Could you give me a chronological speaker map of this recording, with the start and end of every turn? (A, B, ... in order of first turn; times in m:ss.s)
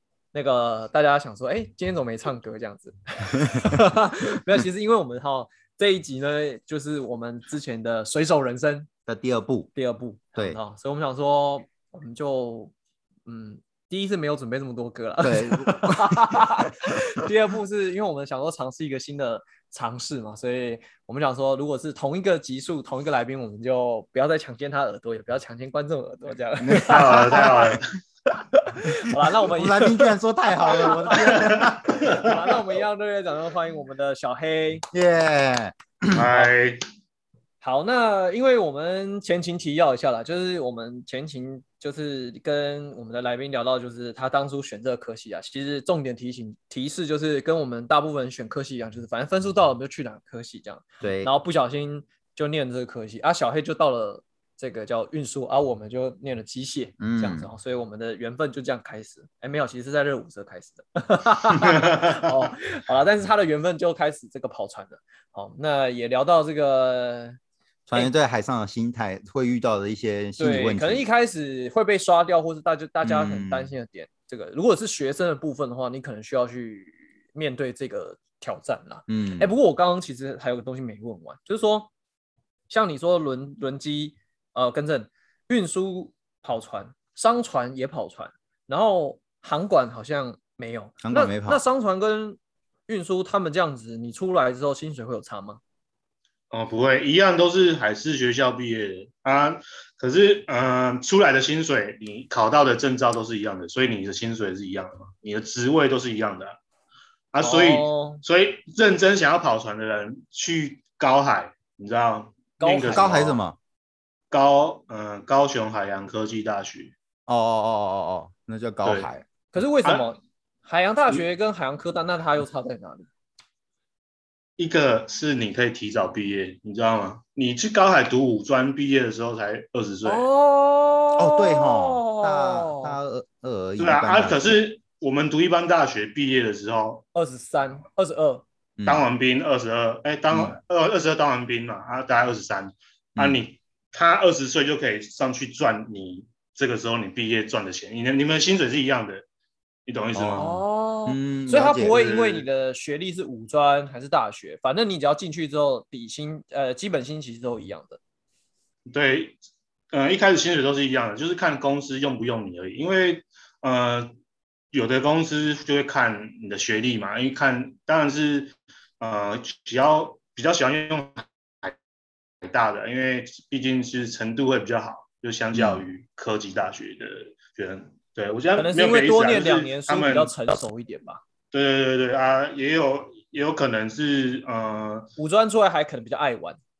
0:00.3-0:08.9 A
0:09.1-0:09.7 B
0:09.7-0:12.7 A
0:13.2-0:27.7 A
0:15.2-0:16.6 B
0:26.6-0:27.6 B
0:26.9-0:27.8 C
0:28.3-0:30.1 A
0:29.4-0:32.1 B
0:30.7-0:34.8 A
0:31.3-0:32.4 C
0:34.9-0:36.3 B
0:36.1-0:36.8 C
0:37.6-1:07.4 A
0:51.0-0:51.3 B
0:57.0-0:57.5 B
1:01.7-1:02.1 C
1:07.9-1:11.0 B
1:10.4-1:21.9 A
1:13.0-1:13.7 B
1:19.1-1:19.5 B
1:22.7-1:35.6 A
1:31.0-1:31.6 B
1:36.5-1:46.6 C
1:47.3-1:53.4 C
1:47.4-1:48.2 A
1:52.6-1:53.4 A
1:52.9-1:53.6 B
1:54.3-1:56.9 C
1:57.3-1:59.2 B
1:58.8-1:59.1 C
1:59.5-2:03.1 A
1:59.8-2:00.1 C
2:04.6-2:10.3 C
2:10.0-2:13.0 A
2:11.2-2:14.6 B
2:13.8-2:17.0 C
2:17.1-2:18.4 A
2:18.8-2:19.0 B
2:18.8-2:29.2 C
2:20.3-2:20.6 B
2:23.2-2:23.4 B
2:29.9-2:30.6 C
2:30.2-2:38.0 A
2:31.1-2:32.0 B
2:31.8-2:32.4 C
2:38.9-2:39.4 C
2:39.9-2:44.1 C
2:44.7-2:51.7 C
2:52.4-3:00.3 C
2:55.5-2:55.8 B
2:58.6-3:01.2 A
3:01.5-3:05.1 C
3:05.2-3:06.6 A